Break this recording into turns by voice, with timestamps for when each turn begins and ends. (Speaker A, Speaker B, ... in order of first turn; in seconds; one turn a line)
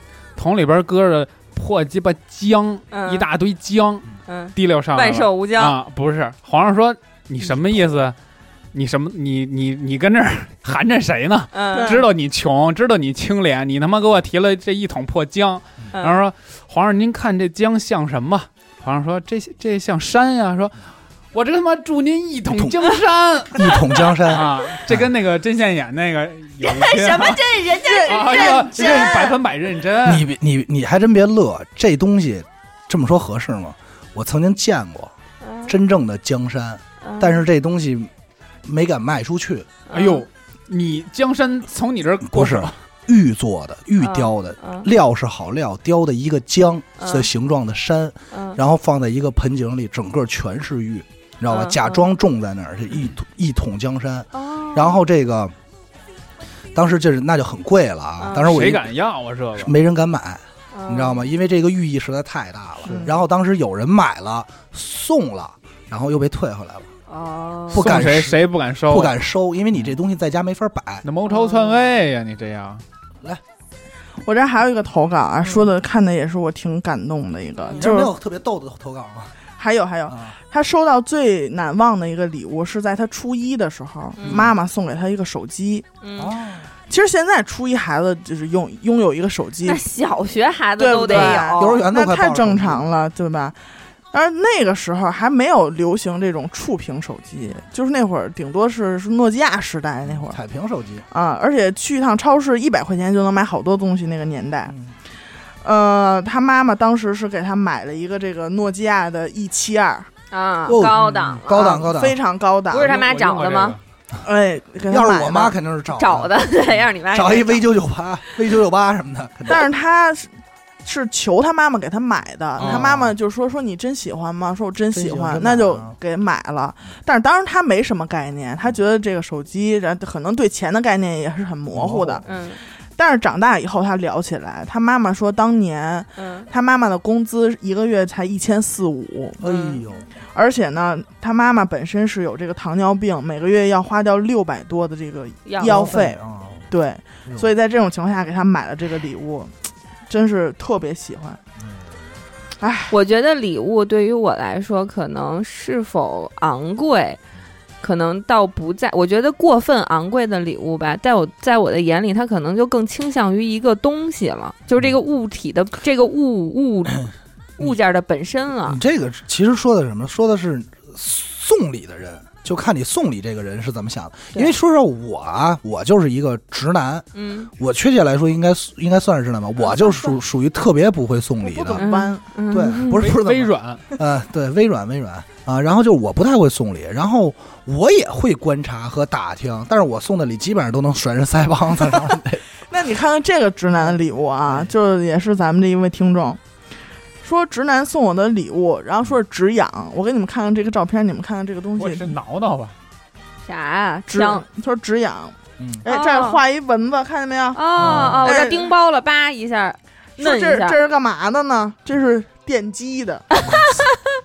Speaker A: 0.4-8.2
Speaker B: 2.9-3.3
Speaker B: 4.3-5.8
Speaker A: 8.7-20.8
Speaker B: 11.5-12.0
Speaker C: 11.8-12.1
Speaker B: 15.9-16.2
Speaker A: 21.3-30.3
Speaker D: 22.5-22.8
Speaker D: 23.5-25.1
Speaker B: 26.6-29.4
Speaker C: 27.8-29.2
Speaker D: 30.0-35.1
Speaker B: 35.4-35.7
Speaker D: 35.7-38.1
Speaker B: 37.0-37.4
Speaker D: 38.6-39.7
Speaker B: 39.9-40.2
Speaker A: 39.9-42.8
Speaker D: 42.2-55.5
Speaker B: 44.0-44.9
Speaker B: 47.0-47.3
Speaker B: 48.3-48.6
Speaker B: 51.5-52.1
Speaker B: 54.3-55.0
Speaker D: 56.8-58.9
Speaker B: 58.2-58.5
Speaker A: 58.4-59.8
Speaker D: 59.6-66.9
Speaker B: 60.7-61.2
Speaker A: 62.8-63.1
Speaker C: 62.9-63.2
Speaker B: 67.1-68.0
Speaker D: 67.7-71.0
Speaker A: 67.7-69.2
Speaker A: 71.0-72.8
Speaker B: 71.3-71.8
Speaker C: 74.2-78.1
Speaker D: 75.4-75.7
Speaker D: 77.8-79.3
Speaker C: 79.6-85.9
Speaker D: 80.1-80.3
Speaker B: 84.2-84.4
Speaker D: 84.2-84.5
Speaker B: 86.0-86.3
Speaker D: 86.2-86.7
Speaker C: 86.9-89.8
Speaker B: 89.7-91.6
Speaker C: 90.8-93.5
Speaker D: 91.1-92.8
Speaker C: 94.1-100.4
Speaker D: 100.1-101.0
Speaker C: 101.1-104.7
Speaker C: 105.6-110.1
Speaker B: 110.3-111.6
Speaker D: 110.7-112.2
Speaker C: 111.5-112.9
Speaker B: 112.7-113.8
Speaker A: 112.7-113.8
Speaker C: 114.2-115.5
Speaker D: 114.9-116.3
Speaker B: 116.0-117.7
Speaker D: 117.1-119.7
Speaker C: 119.5-120.3
Speaker C: 120.8-132.3
Speaker A: 122.6-122.8
Speaker D: 122.6-123.2
Speaker D: 124.9-126.0
Speaker D: 131.7-132.2
Speaker B: 132.2-132.6
Speaker C: 133.0-139.4
Speaker B: 136.2-136.5
Speaker D: 139.4-140.1
Speaker B: 139.4-139.8
Speaker C: 140.3-146.2
Speaker B: 145.5-146.0
Speaker D: 145.6-146.7
Speaker C: 146.7-149.6
Speaker C: 150.1-151.4
Speaker C: 152.6-152.9
Speaker B: 152.9-157.2
Speaker B: 157.8-167.1
Speaker B: 167.6-168.8
Speaker D: 168.7-177.1
Speaker B: 177.2-177.5
Speaker D: 177.6-181.9
Speaker C: 181.4-182.2
Speaker B: 181.8-183.0
Speaker D: 182.5-192.4
Speaker A: 182.9-183.8
Speaker C: 192.7-196.4
Speaker C: 197.2-202.1
Speaker A: 201.8-202.8
Speaker B: 203.4-204.4
Speaker C: 204.1-207.6
Speaker D: 205.6-205.9
Speaker B: 205.9-206.4
Speaker B: 207.5-210.8
Speaker A: 207.8-208.3
Speaker D: 207.8-208.3
Speaker C: 208.2-208.7
Speaker C: 210.2-213.6
Speaker B: 213.4-214.0